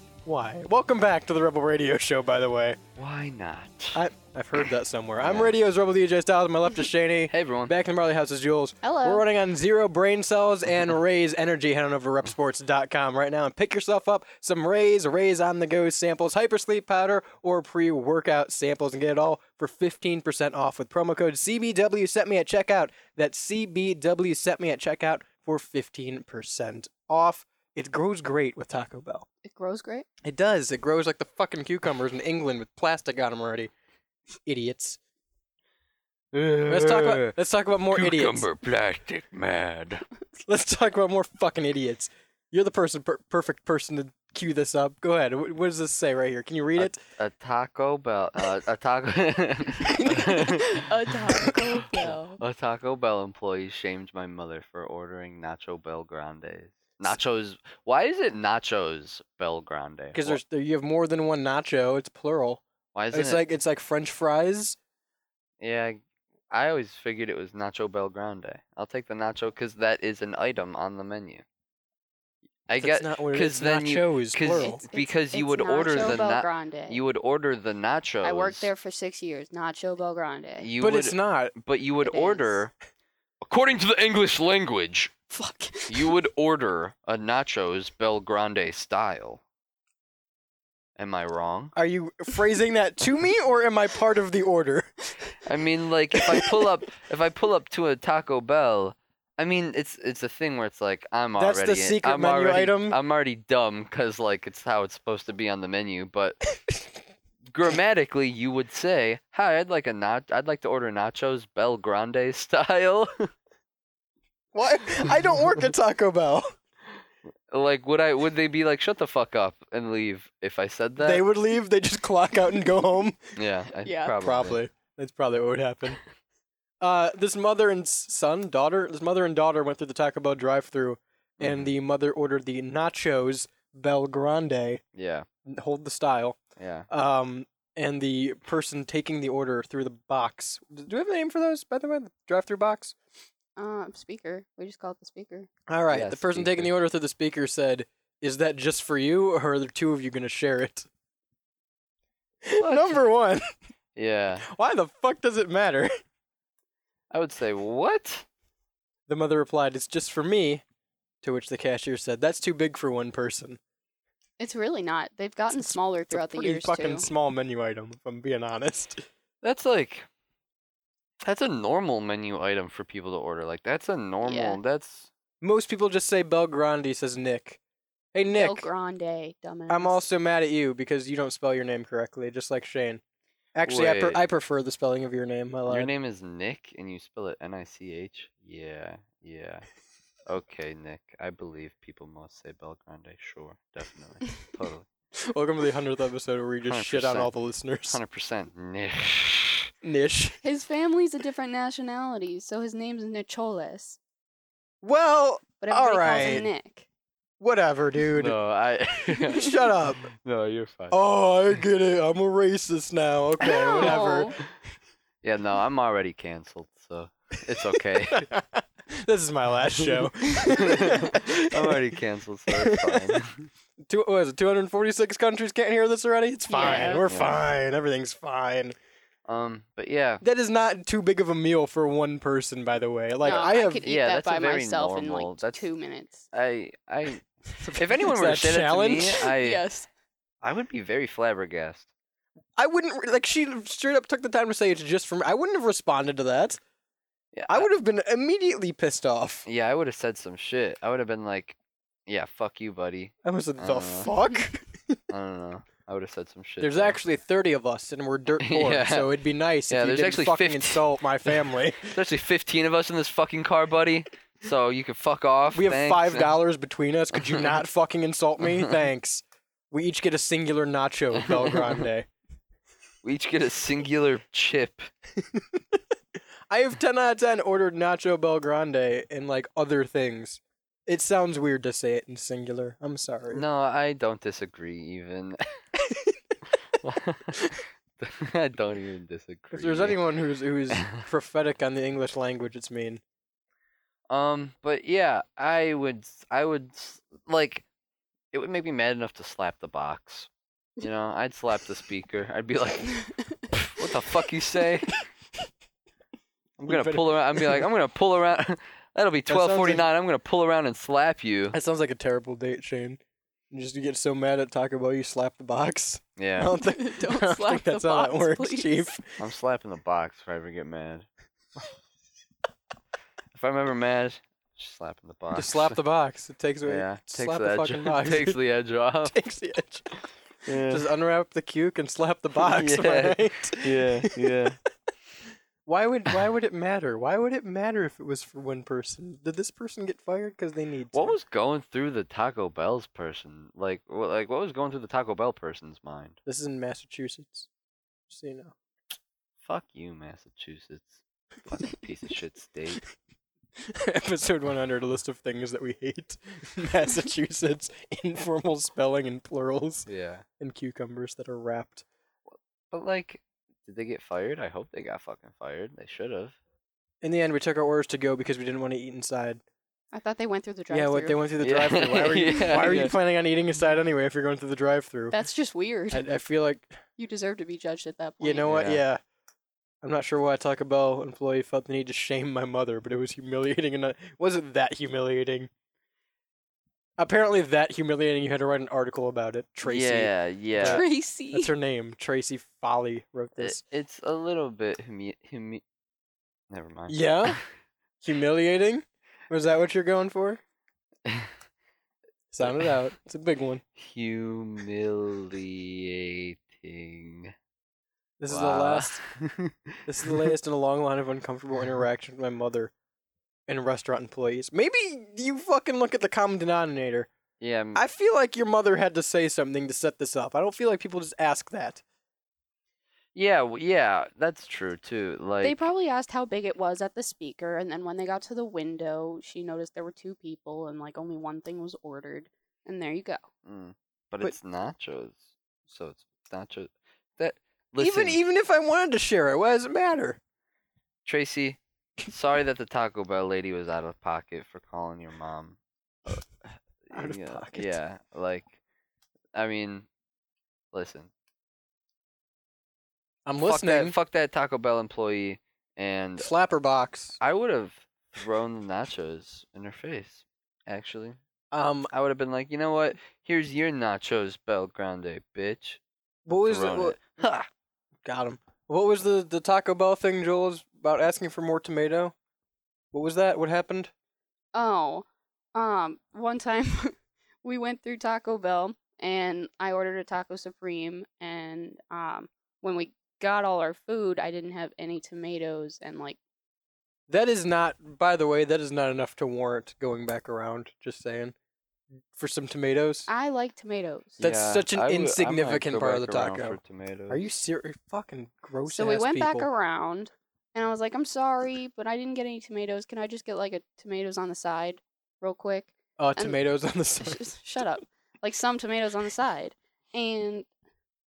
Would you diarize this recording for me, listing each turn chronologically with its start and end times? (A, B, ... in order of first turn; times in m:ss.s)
0:00.2-0:02.8 A
0:03.0-0:04.0 B
0:03.9-0:29.2 A
0:05.2-0:05.5 B
0:07.3-0:07.7 B
0:08.8-0:09.2 C
0:29.4-0:30.0 C
0:30.2-0:33.7 A
0:34.4-0:35.0 A
0:36.3-0:37.3 B
0:36.6-0:38.5 A
0:37.9-0:40.0 B
0:40.4-0:47.0 A
0:46.8-0:50.8 B
0:50.3-0:52.4 C
0:51.5-1:00.4 B
1:00.1-1:04.8 A
1:02.9-1:03.4 B
1:05.6-1:11.4 B
1:12.7-1:18.7 B
1:12.8-1:14.8 A
1:14.5-1:17.0 C
1:18.2-1:20.7 C
1:20.6-1:22.7 B
1:20.8-1:21.5 A
1:22.0-1:22.6 C
1:23.4-1:25.1 B
1:25.3-1:26.1 C
1:25.9-1:29.4 B
1:31.0-1:31.7 B
1:31.8-1:34.9 A
1:35.4-1:46.4 B
1:36.2-1:36.5 A
1:41.4-1:43.0 A
1:47.5-1:53.3 B
1:54.5-1:56.5 A
1:57.5-2:01.2 B
2:01.0-2:03.2 A
2:03.4-2:04.6 B
2:03.8-2:04.1 C
2:04.1-2:06.0 A
2:06.8-2:14.8 A
2:11.4-2:11.7 B
2:14.9-2:15.2 B
2:15.4-2:16.4 A
2:16.6-2:16.9 B
2:16.9-2:22.9 A
2:23.6-2:25.5 C
2:25.7-2:30.9 A
2:25.9-2:26.7 B
2:32.4-2:33.4 A
2:32.6-2:33.0 B
2:34.0-2:34.5 B
2:34.4-2:35.9 A
2:37.1-2:38.2 B
2:39.1-2:40.6 A
2:41.2-2:43.6 A
2:44.4-2:47.1 C
2:45.6-2:49.0 A
2:49.4-2:50.1 B
2:51.2-2:55.1 B
2:54.2-2:54.6 C
2:55.4-2:57.6 A
2:58.1-2:58.7 A
2:58.2-3:00.0 C
2:59.7-3:03.0 A
3:03.5-3:05.9 A
3:03.6-3:04.2 B
3:05.7-3:09.6 B
3:10.3-3:14.9 B
3:15.2-3:18.0 A
3:16.7-3:17.3 B
3:17.9-3:19.7 B
3:19.8-3:20.4 A
3:20.4-3:24.0 C
3:24.8-3:26.5 A
3:25.6-3:26.8 C
3:26.0-3:26.4 B
3:27.4-3:28.4 A
3:28.1-3:31.0 B
3:29.2-3:30.0 A
3:30.9-3:34.4 A
3:33.4-3:34.3 C
3:35.2-3:38.3 B
3:38.1-3:41.8 A
3:39.8-3:43.5 B
3:42.5-3:43.2 A
3:43.9-3:48.8 A
3:46.5-3:47.0 C
3:46.6-3:47.4 B
3:49.3-3:50.2 B
3:50.2-3:53.8 A
3:53.2-3:56.2 C
3:53.2-3:55.6 B
3:56.3-3:57.2 B
3:57.6-3:59.3 A
3:57.8-3:59.6 B
3:59.4-3:59.9 C
4:00.4-4:01.9 B
4:02.6-4:06.6 A
4:07.3-4:07.7 B
4:07.5-4:09.4 A
4:09.4-4:11.6 B
4:12.1-4:14.1 B
4:13.2-4:15.0 A
4:15.1-4:17.0 B
4:16.6-4:21.9 A
4:18.4-4:19.1 B
4:19.7-4:26.3 B
4:25.5-4:32.1 A
4:27.2-4:27.5 B
4:31.2-4:31.8 B
4:33.0-4:34.9 B
4:36.5-4:43.4 A
4:43.3-4:45.4 B
4:46.8-4:50.0 B
4:49.5-4:53.0 A
4:50.7-4:51.0 B
4:54.1-4:57.6 B
4:58.3-5:00.3 B
5:00.8-5:03.0 B
5:03.6-5:05.0 B
5:06.6-5:11.6 B
5:06.7-5:07.6 A
5:09.3-5:09.8 A
5:11.5-5:13.0 A
5:13.5-5:19.2 A
5:16.2-5:16.5 B
5:16.6-5:18.9 C
5:19.2-5:21.1 B
5:23.3-5:25.8 B
5:25.3-5:28.4 A
5:26.6-5:29.2 B
5:29.0-5:29.9 A
5:30.4-5:30.8 B
5:30.7-5:34.4 A
5:32.4-5:34.6 B
5:35.6-5:41.1 A
5:40.9-5:46.2 B
5:46.2-5:47.5 A
5:48.1-5:48.5 A
5:49.4-5:52.8 B
5:53.7-5:59.9 A
5:59.9-6:00.2 B
6:00.4-6:01.8 A
6:02.3-6:06.4 B
6:07.0-6:09.4 A
6:09.9-6:11.3 C
6:10.7-6:15.2 A
6:11.4-6:12.9 B
6:15.1-6:16.0 C
6:15.9-6:16.8 A
6:17.0-6:18.5 C
6:18.2-6:19.0 A
6:18.4-6:18.8 B
6:19.8-6:25.5 A
6:27.0-6:33.6 A
6:29.6-6:30.8 B
6:30.6-6:31.5 C
6:33.4-6:35.6 B
6:36.5-6:37.4 B
6:36.9-6:37.4 A
6:38.0-6:40.4 A
6:41.0-6:41.3 B
6:42.3-6:43.6 A
6:43.8-6:47.3 B
6:48.2-6:49.0 A
6:48.3-6:50.3 B
6:49.8-6:52.7 A
6:53.5-6:57.1 A
6:57.4-6:57.8 B
6:57.7-7:01.8 A
7:03.1-7:05.7 B
7:05.4-7:13.2 C
7:13.4-7:18.2 B
7:17.8-7:20.2 A
7:21.0-7:26.2 B
7:26.9-7:28.6 B
7:26.9-7:27.8 A
7:29.3-7:29.9 B
7:30.7-7:31.1 B
7:33.2-7:33.9 A
7:33.4-7:36.3 B
7:36.2-7:37.2 A
7:37.2-7:41.2 B
7:41.5-7:41.9 A
7:41.9-7:45.8 B
7:46.2-7:47.0 A
7:46.3-7:47.5 B
7:48.0-7:52.1 A
7:52.9-7:53.9 A
7:54.5-8:06.2 C
8:07.1-8:11.3 A
8:12.1-8:13.1 A
8:13.1-8:14.2 C
8:14.2-8:19.5 A
8:14.2-8:17.2 B
8:18.7-8:26.4 C
8:26.0-8:27.2 A
8:27.0-8:30.5 C